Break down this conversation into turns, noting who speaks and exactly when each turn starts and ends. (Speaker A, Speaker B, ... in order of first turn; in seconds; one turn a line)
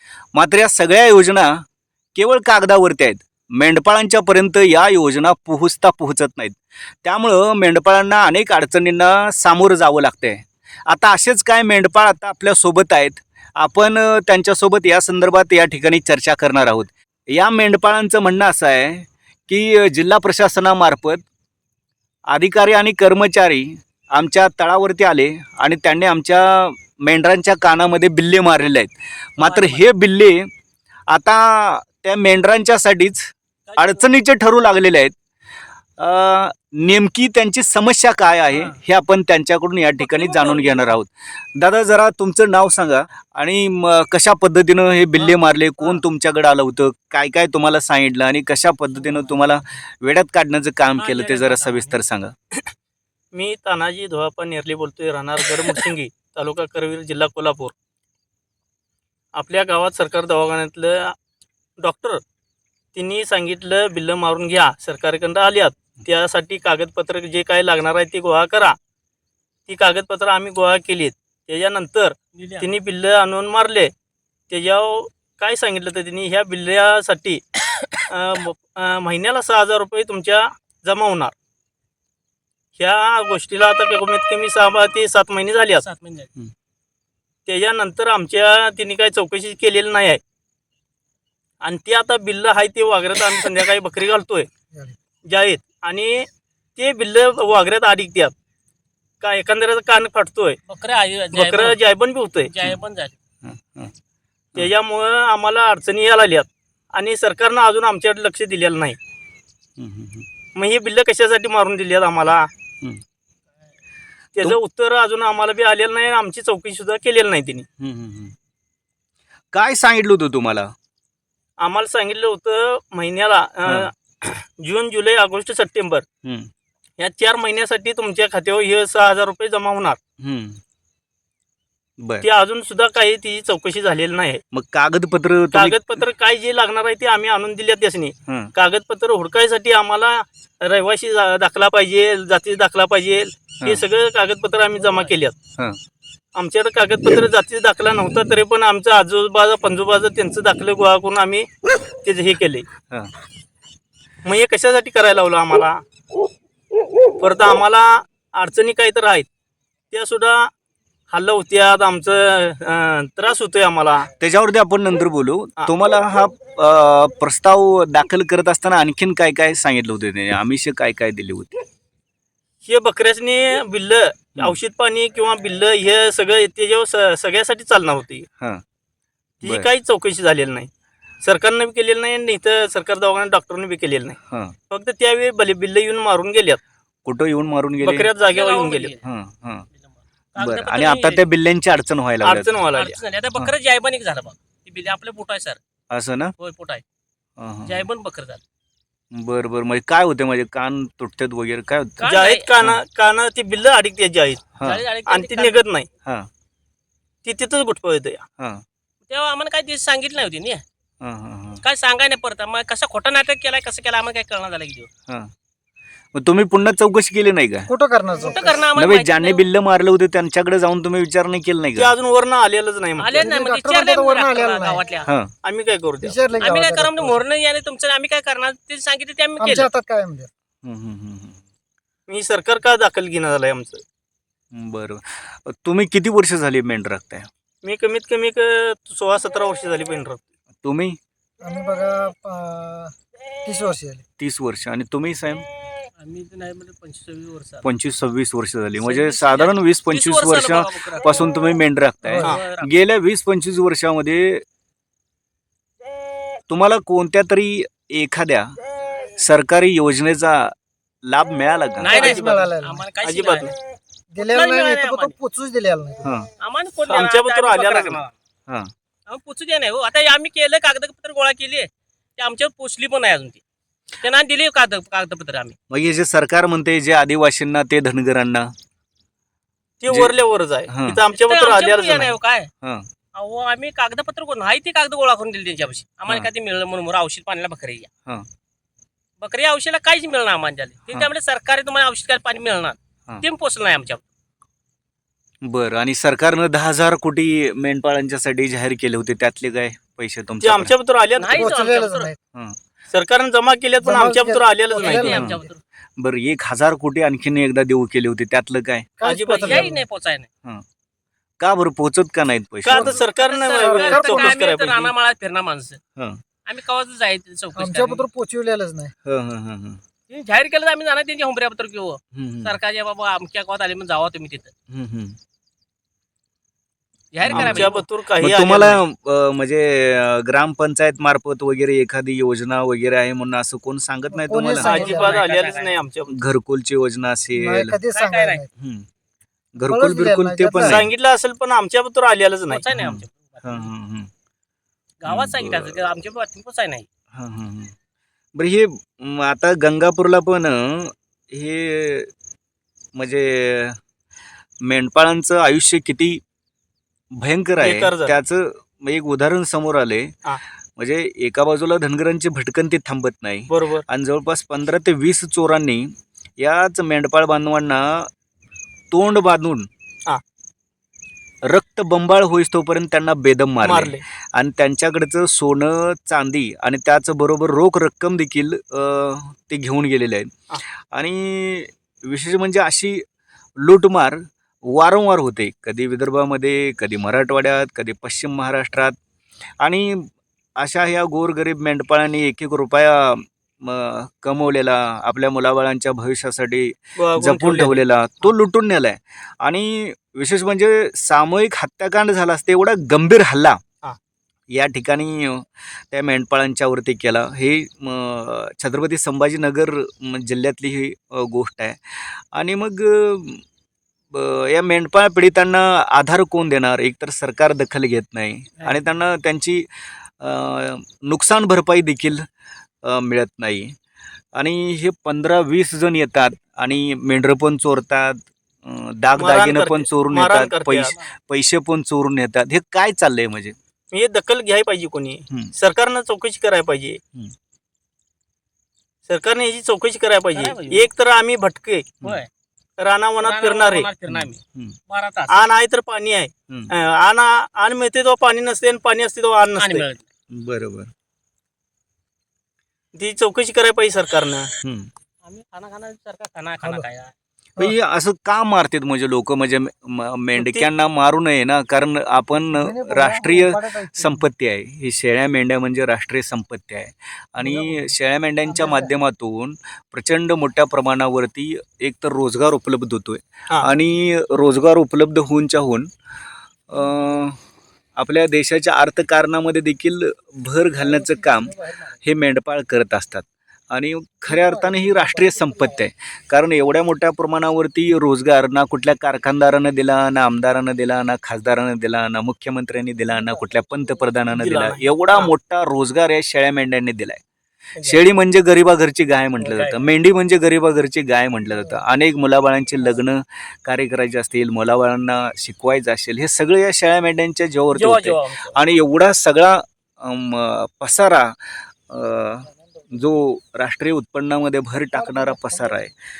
Speaker A: 0.3-21.2
Speaker A: 22.3-30.5
Speaker B: 29.4-29.8
Speaker A: 31.1-35.1
Speaker B: 33.7-34.0
Speaker A: 36.0-52.3
Speaker B: 40.0-40.9
Speaker B: 45.2-46.0
Speaker B: 51.0-52.0
Speaker C: 53.3-57.7
Speaker C: 59.3-61.1
Speaker C: 61.8-62.2
Speaker C: 62.9-68.8
Speaker C: 69.7-73.9
Speaker B: 72.3-72.7
Speaker C: 74.5-77.4
Speaker B: 77.7-78.0
Speaker C: 78.1-81.3
Speaker C: 82.8-85.8
Speaker B: 85.8-86.3
Speaker C: 87.5-90.2
Speaker C: 91.6-94.5
Speaker C: 95.2-98.3
Speaker C: 99.2-100.6
Speaker B: 100.7-101.8
Speaker C: 101.3-102.5
Speaker B: 102.5-103.1
Speaker A: 103.4-103.9
Speaker C: 104.5-109.0
Speaker A: 109.8-110.3
Speaker C: 110.5-112.5
Speaker C: 114.3-117.7
Speaker A: 117.8-118.3
Speaker A: 119.5-120.7
Speaker C: 121.6-126.0
Speaker A: 126.2-126.5
Speaker C: 127.0-130.0
Speaker A: 130.2-130.6
Speaker C: 132.2-134.4
Speaker A: 134.5-135.8
Speaker C: 135.5-145.3
Speaker A: 138.3-138.5
Speaker C: 146.3-151.5
Speaker C: 152.0-152.7
Speaker C: 154.2-155.8
Speaker C: 157.2-159.3
Speaker C: 159.9-160.5
Speaker C: 161.1-164.1
Speaker A: 164.2-171.6
Speaker C: 172.6-178.2
Speaker A: 179.4-179.7
Speaker C: 179.4-180.7
Speaker C: 181.2-184.2
Speaker A: 184.3-184.5
Speaker C: 184.7-186.6
Speaker A: 187.0-188.1
Speaker C: 187.8-188.9
Speaker B: 188.2-189.0
Speaker A: 189.0-189.7
Speaker B: 190.3-191.2
Speaker A: 190.4-192.6
Speaker C: 192.2-193.0
Speaker B: 192.7-195.6
Speaker A: 195.9-196.3
Speaker B: 196.4-196.8
Speaker A: 197.4-197.8
Speaker B: 197.6-198.4
Speaker A: 199.1-202.1
Speaker B: 202.0-202.5
Speaker C: 202.0-204.4
Speaker A: 204.6-204.8
Speaker B: 204.6-205.6
Speaker C: 205.1-205.9
Speaker C: 207.2-208.2
Speaker B: 209.1-210.6
Speaker A: 211.0-211.6
Speaker B: 211.6-214.9
Speaker A: 216.1-217.7
Speaker D: 217.7-218.6
Speaker B: 218.2-219.4
Speaker A: 218.7-221.9
Speaker C: 221.8-223.2
Speaker B: 223.0-225.1
Speaker D: 223.2-224.8
Speaker C: 225.4-226.2
Speaker D: 226.0-227.2
Speaker B: 226.4-229.7
Speaker D: 229.4-230.3
Speaker A: 230.6-231.4
Speaker C: 232.1-233.8
Speaker A: 234.5-237.3
Speaker C: 237.6-240.2
Speaker A: 240.6-241.0
Speaker D: 241.4-244.0
Speaker A: 244.2-245.4
Speaker B: 246.0-247.7
Speaker A: 247.6-254.4
Speaker B: 248.8-251.1
Speaker B: 252.1-252.7
Speaker D: 252.1-252.3
Speaker A: 256.5-258.6
Speaker A: 259.1-261.9
Speaker B: 261.8-263.5
Speaker D: 261.9-262.8
Speaker C: 261.9-262.4
Speaker C: 263.0-263.5
Speaker D: 264.1-266.1
Speaker B: 264.2-265.1
Speaker A: 266.0-266.3
Speaker B: 266.4-268.1
Speaker C: 266.9-268.0
Speaker B: 269.1-273.4
Speaker B: 274.0-275.5
Speaker A: 275.7-278.5
Speaker C: 279.8-282.1
Speaker A: 279.9-280.1
Speaker A: 280.7-281.0
Speaker B: 281.1-282.5
Speaker B: 283.1-287.9
Speaker B: 289.2-294.0
Speaker A: 295.4-300.7
Speaker C: 300.4-301.5
Speaker B: 301.2-302.1
Speaker D: 301.3-302.2
Speaker C: 302.9-305.2
Speaker D: 303.8-305.4
Speaker B: 304.7-305.6
Speaker A: 305.1-305.4
Speaker A: 306.0-308.9
Speaker D: 309.0-309.8
Speaker C: 309.0-309.7
Speaker B: 309.3-310.3
Speaker A: 311.4-312.9
Speaker C: 312.6-314.9
Speaker B: 312.7-315.8
Speaker D: 313.5-314.3
Speaker B: 316.4-318.0
Speaker D: 317.6-318.9
Speaker A: 319.0-319.8
Speaker B: 320.1-324.5
Speaker A: 322.1-322.5
Speaker A: 324.7-325.2
Speaker B: 327.1-327.8
Speaker A: 327.2-334.9
Speaker C: 327.3-328.8
Speaker D: 334.1-335.2
Speaker B: 334.6-335.8
Speaker C: 334.6-336.1
Speaker A: 336.1-337.8
Speaker D: 337.4-338.5
Speaker B: 337.9-338.4
Speaker A: 338.6-338.9
Speaker A: 339.5-340.9
Speaker D: 339.6-340.8
Speaker C: 340.6-342.6
Speaker B: 342.5-343.7
Speaker A: 342.7-344.1
Speaker B: 345.0-346.9
Speaker A: 345.1-345.8
Speaker A: 347.1-347.7
Speaker A: 348.3-352.1
Speaker A: 352.9-353.8
Speaker A: 354.6-356.2
Speaker A: 357.1-360.1
Speaker C: 357.6-358.1
Speaker A: 360.8-368.1
Speaker C: 363.5-363.8
Speaker A: 368.9-369.7
Speaker A: 371.4-383.0
Speaker C: 373.6-374.0
Speaker A: 383.6-388.9
Speaker A: 389.6-403.6
Speaker C: 397.0-397.8
Speaker A: 404.5-413.4
Speaker A: 414.1-419.6
Speaker A: 420.2-422.2
Speaker A: 422.8-423.7
Speaker A: 424.4-433.6
Speaker C: 429.2-430.9
Speaker C: 433.9-437.0
Speaker C: 439.1-441.9
Speaker B: 440.3-440.9
Speaker B: 442.0-442.3
Speaker C: 442.8-443.9
Speaker B: 443.2-445.4
Speaker A: 444.1-444.8
Speaker C: 445.3-449.8
Speaker B: 449.6-450.0
Speaker A: 450.3-450.9
Speaker C: 452.9-454.5
Speaker A: 454.6-454.9
Speaker B: 455.2-457.1
Speaker A: 457.6-475.9
Speaker C: 460.4-460.7
Speaker D: 462.6-464.2
Speaker D: 467.4-467.8
Speaker D: 468.5-468.9
Speaker A: 476.7-477.4
Speaker A: 478.0-497.2
Speaker B: 480.8-481.9
Speaker B: 484.3-485.8
Speaker C: 494.3-495.3
Speaker A: 497.8-515.9
Speaker B: 499.4-499.8
Speaker B: 507.7-508.6
Speaker D: 515.0-515.7